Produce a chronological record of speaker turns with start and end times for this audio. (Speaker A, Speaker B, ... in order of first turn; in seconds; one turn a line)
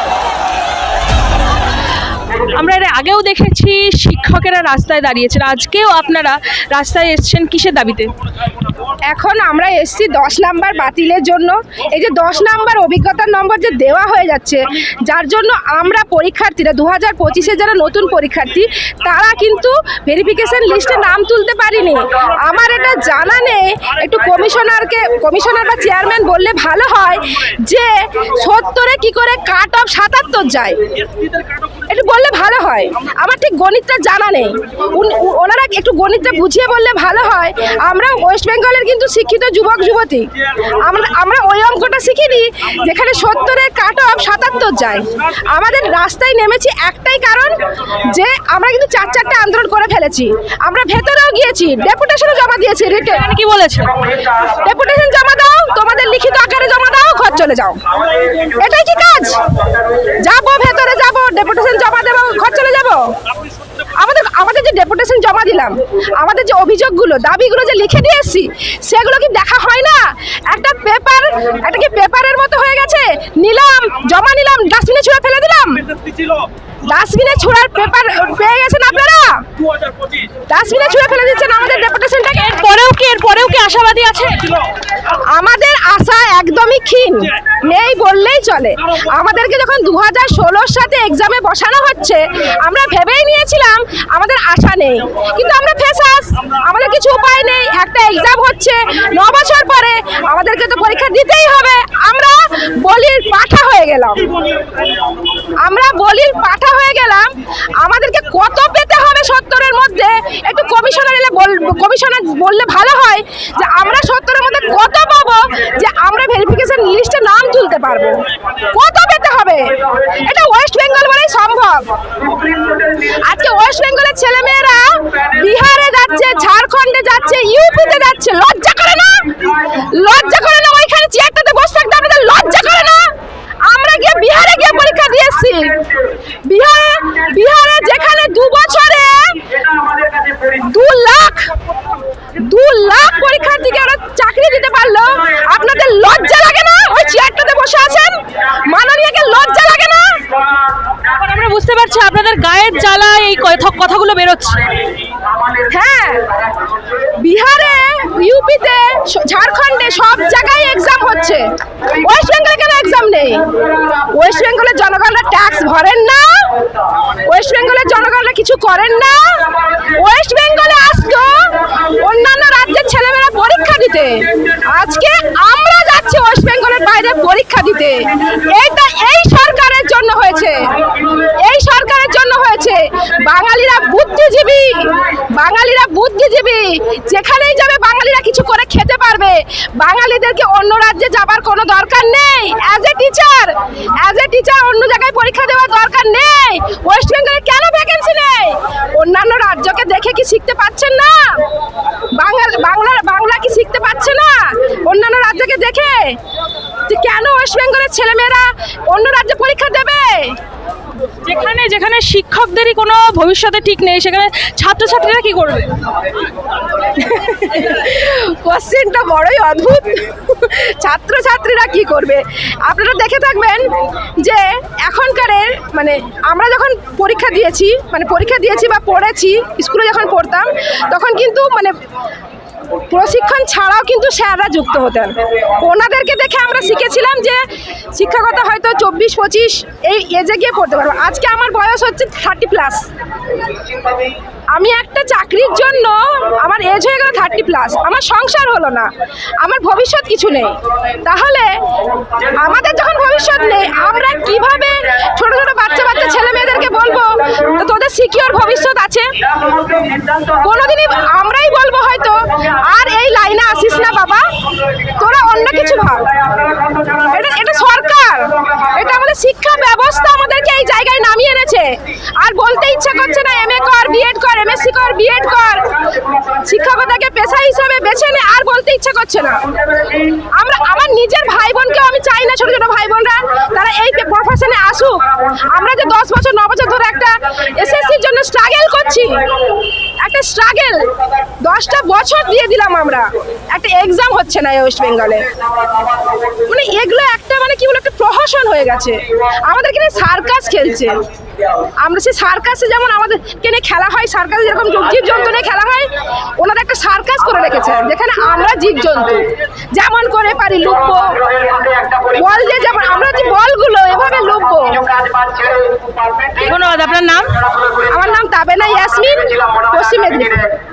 Speaker A: 2.3-8.1
Speaker B: 9.1-30.8
Speaker B: 31.9-53.3
Speaker A: 53.0-54.1
Speaker B: 54.4-57.8
Speaker B: 58.4-63.1
Speaker B: 63.8-75.9
Speaker B: 76.8-79.5
Speaker B: 80.5-82.5
Speaker A: 82.3-84.7
Speaker B: 85.1-104.3
Speaker B: 105.6-121.9
Speaker B: 122.9-133.1
Speaker B: 133.6-139.5
Speaker B: 140.4-141.5
Speaker B: 142.4-150.3
Speaker A: 151.0-154.7
Speaker B: 155.6-156.3
Speaker B: 157.1-201.5
Speaker B: 202.2-206.2
Speaker B: 206.9-210.4
Speaker A: 211.2-215.8
Speaker B: 216.8-231.8
Speaker B: 232.8-242.8
Speaker B: 244.5-251.5
Speaker B: 252.2-259.2
Speaker B: 260.3-266.2
Speaker B: 266.9-279.5
Speaker B: 280.2-289.3
Speaker B: 290.0-295.3
Speaker B: 296.4-301.0
Speaker B: 301.8-311.3
Speaker B: 312.0-315.1
Speaker A: 316.3-317.4
Speaker B: 317.7-320.5